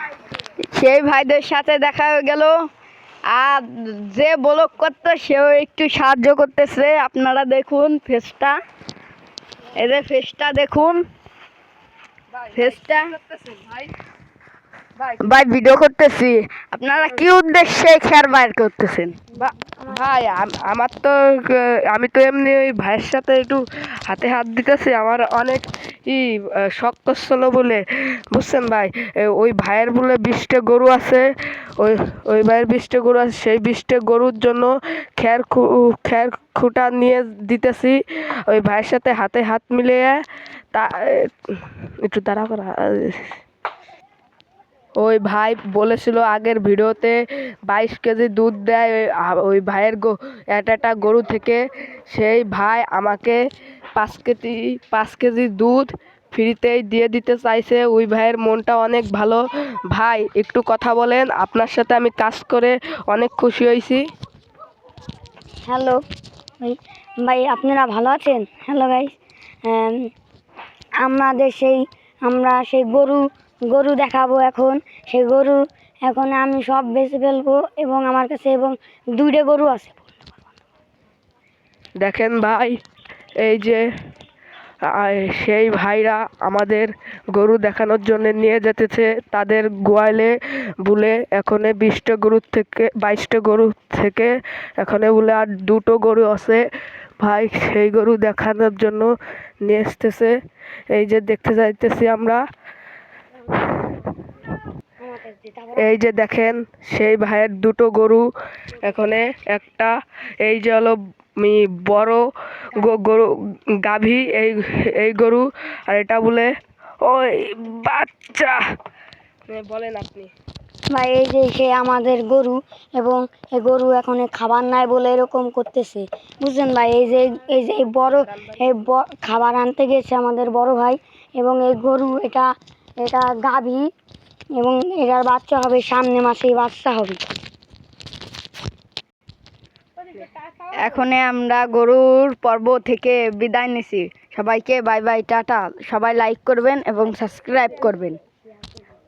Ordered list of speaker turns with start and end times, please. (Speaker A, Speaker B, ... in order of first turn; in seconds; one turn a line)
Speaker A: 0.5-2.6
Speaker A: 3.3-8.6
Speaker A: 9.8-11.1
Speaker B: 12.4-13.9
Speaker A: 12.5-13.1
Speaker A: 15.2-19.2
Speaker B: 19.3-43.4
Speaker B: 45.0-53.5
Speaker B: 54.0-64.0
Speaker C: 65.7-66.0
Speaker C: 66.6-69.2
Speaker C: 69.7-70.1
Speaker C: 71.0-80.1
Speaker B: 82.0-82.8
Speaker B: 83.4-83.8
Speaker B: 84.8-96.7
Speaker B: 97.2-99.1
Speaker B: 99.6-100.4
Speaker B: 100.9-102.4
Speaker C: 105.0-105.9
Speaker B: 105.8-108.3
Speaker B: 108.8-116.5
Speaker B: 117.0-118.6
Speaker B: 119.5-120.3
Speaker C: 120.9-132.5
Speaker C: 133.0-133.8
Speaker C: 134.6-137.2
Speaker A: 140.8-148.2